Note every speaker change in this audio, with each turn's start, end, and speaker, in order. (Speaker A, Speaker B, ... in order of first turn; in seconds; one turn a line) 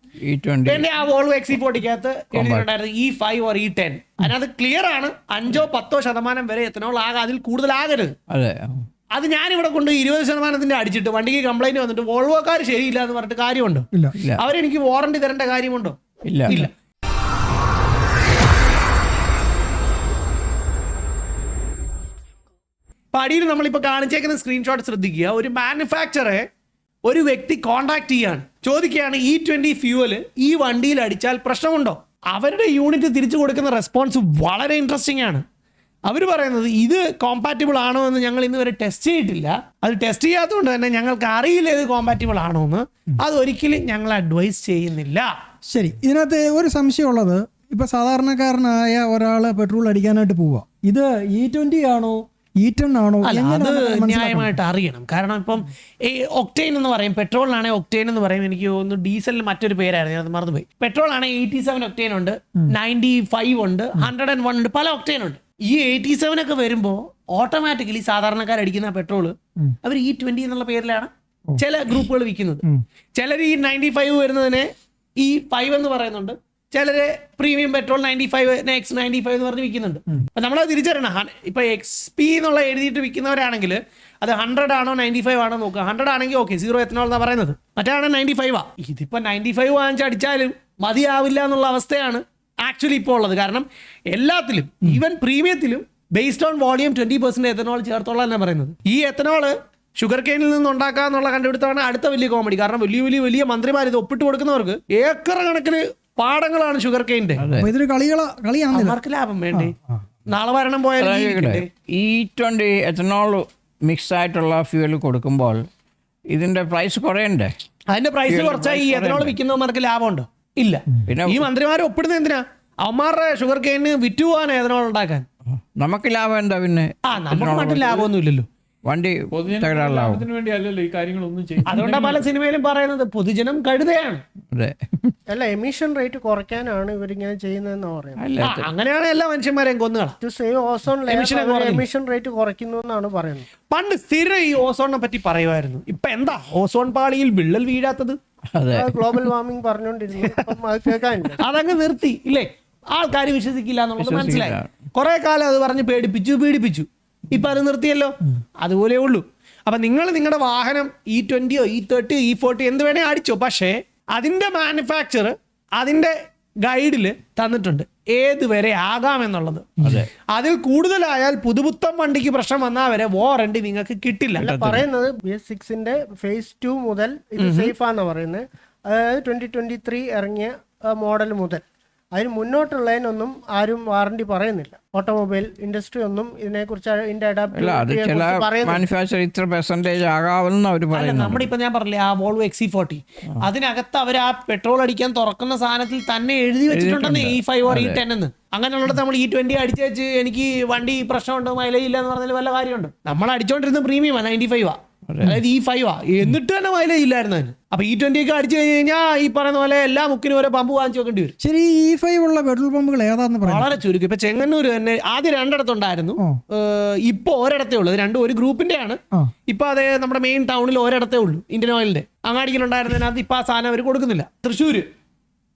Speaker A: 0.2-0.9
Speaker B: 0.7-8.2
Speaker A: 2.3-2.7
Speaker A: 8.3-8.8
Speaker B: 9.1-16.7
Speaker A: 16.3-16.7
Speaker B: 23.1-26.5
Speaker B: 27.1-35.5
Speaker B: 36.1-45.3
Speaker C: 45.7-54.6
Speaker B: 53.2-107.5
Speaker A: 107.4-107.7
Speaker C: 107.6-109.0
Speaker B: 108.7-109.8
Speaker C: 109.5-110.0
Speaker B: 110.3-111.7
Speaker A: 111.0-115.6
Speaker A: 116.3-117.5
Speaker B: 117.9-125.2
Speaker A: 118.3-119.4
Speaker A: 121.1-121.5
Speaker A: 125.8-128.1
Speaker B: 127.0-128.5
Speaker A: 128.8-130.3
Speaker D: 129.3-132.3
Speaker B: 131.7-134.2
Speaker A: 134.5-135.1
Speaker E: 135.3-138.3
Speaker A: 138.2-138.7
Speaker B: 138.4-140.2
Speaker E: 140.2-143.5
Speaker B: 141.1-141.8
Speaker B: 143.7-148.2
Speaker A: 148.6-149.0
Speaker E: 148.7-151.4
Speaker B: 151.4-174.5
Speaker A: 154.0-154.7
Speaker C: 169.8-170.0
Speaker A: 174.4-174.8
Speaker E: 174.4-181.6
Speaker B: 177.4-177.7
Speaker E: 182.2-188.8
Speaker A: 187.5-191.5
Speaker B: 190.9-211.3
Speaker A: 196.7-198.0
Speaker A: 205.1-205.4
Speaker C: 211.4-213.8
Speaker B: 213.5-224.9